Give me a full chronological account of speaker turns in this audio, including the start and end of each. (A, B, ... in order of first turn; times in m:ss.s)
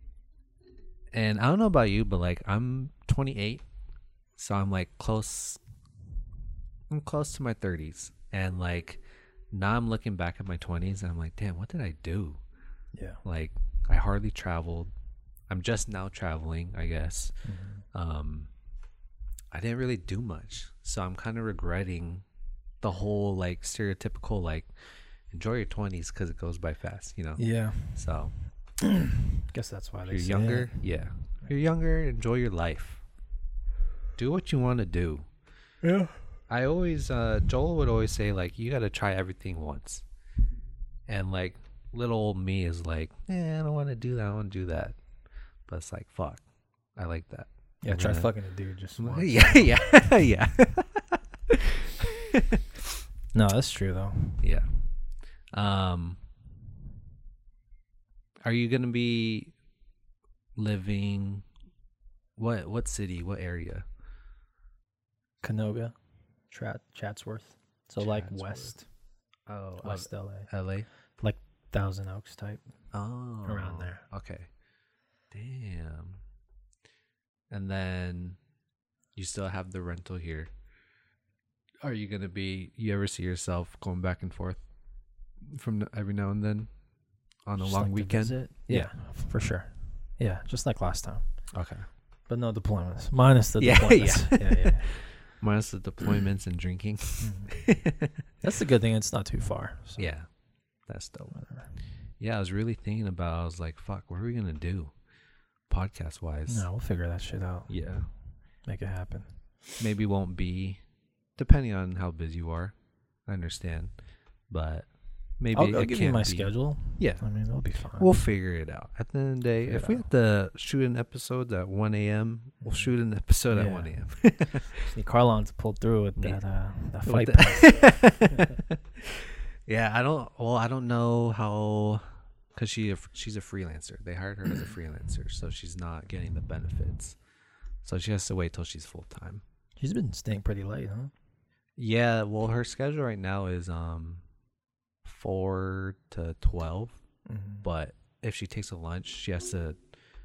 0:01.1-0:03.6 A
0:04.4-0:05.6 A
0:06.9-0:12.4 A
0:12.9-0:13.2 B
0:13.2-0:14.9 A
0:15.5-0:17.3 A
0:17.4-0:17.8 B
0:17.9-0:18.5 A
0:19.5-0:22.2 A
0:22.8-0:24.7 A
0:25.3-0:27.4 A
0:27.4-0:28.0 B
0:27.9-0:28.3 A
0:28.8-0:30.8 B
0:30.1-0:33.0 A
0:34.2-0:35.3 A
0:35.8-0:36.2 B
0:36.5-0:40.0 A
0:41.1-0:45.0 A
0:45.7-0:46.4 A
0:47.0-0:48.3 A
0:47.8-0:49.8 B
0:49.0-0:52.9 A
0:53.3-0:54.4 B
0:54.4-0:54.7 A
0:55.5-0:56.2 A
0:58.4-0:59.5 A
1:00.6-1:01.5 A
1:02.4-1:03.9 A
1:05.4-1:06.0 B
1:06.5-1:08.8 B
1:08.0-1:08.8 A
1:09.5-1:10.9 A
1:09.8-1:10.5 B
1:11.2-1:12.6 B
1:12.9-1:14.5 A
1:13.4-1:14.0 B
1:15.3-1:16.2 A
1:17.5-1:18.4 A
1:19.2-1:20.5 A
1:21.8-1:24.6 A
1:25.4-1:26.7 A
1:27.5-1:28.9 A
1:27.6-1:31.2 B
1:31.5-1:31.8 A
1:32.3-1:34.9 B
1:33.6-1:38.2 A
1:37.2-1:37.5 B
1:38.4-1:40.1 B
1:40.0-1:40.3 A
1:40.9-1:41.3 A
1:41.3-1:41.7 B
1:42.2-1:44.9 A
1:45.7-1:46.7 A
1:46.5-1:47.8 B
1:47.7-1:48.1 A
1:48.7-1:49.8 B
1:49.8-1:50.8 A
1:51.4-1:52.8 A
1:53.3-1:53.9 A
1:54.5-1:54.9 A
1:55.4-1:57.2 A
1:55.5-1:58.2 B
1:58.0-2:04.8 A
1:59.6-2:00.1 B
2:02.6-2:02.9 B
2:03.5-2:04.0 B
2:04.8-2:08.6 B
2:07.1-2:12.0 A
2:12.5-2:17.2 A
2:17.8-2:19.4 A
2:19.8-2:21.1 B
2:21.8-2:24.2 A
2:25.0-2:27.0 A
2:27.3-2:27.6 B
2:27.6-2:29.8 A